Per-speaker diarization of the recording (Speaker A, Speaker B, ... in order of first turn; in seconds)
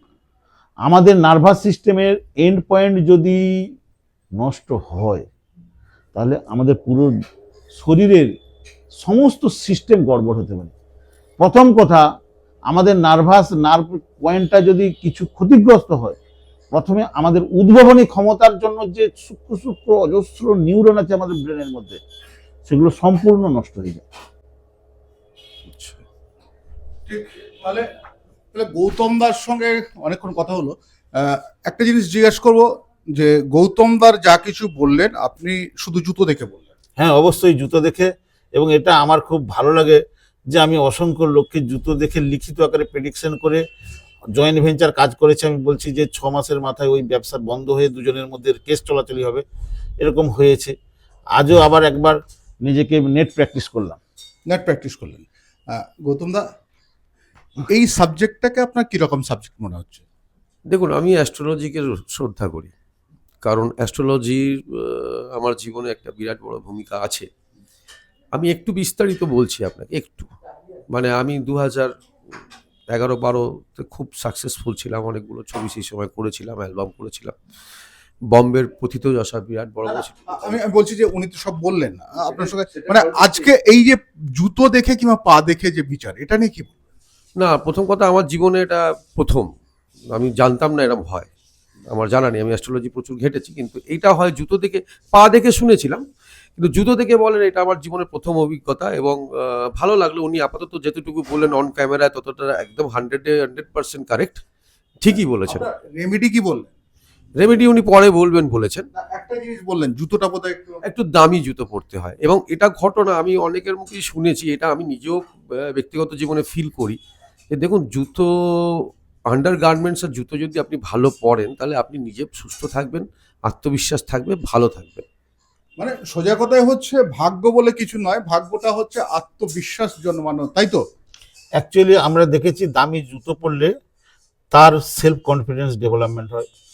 Speaker A: 0.9-3.4, 4.4-5.3, 6.2-7.1, 7.8-8.3, 9.0-10.7, 11.4-12.0, 12.7-16.2, 16.8-22.0, 22.7-24.1, 37.0-40.0, 40.5-43.6, 44.4-49.4, 50.0-50.7, 51.4-54.0, 131.6-133.7, 134.5-136.4
Speaker B: 25.7-26.0, 60.7-62.7, 63.4-67.3, 68.3-70.3, 70.9-71.9, 72.9-77.3, 78.3-80.6, 82.2-83.5, 87.4-89.5, 90.1-91.3, 91.9-96.0, 96.6-104.4, 105.0-105.7, 107.4-108.9, 110.9-117.0, 117.5-125.0
Speaker C: 27.1-27.9, 28.5-36.7, 54.5-56.4, 57.7-60.0, 80.0-86.7, 105.5-106.7, 109.0-110.8, 125.8-130.8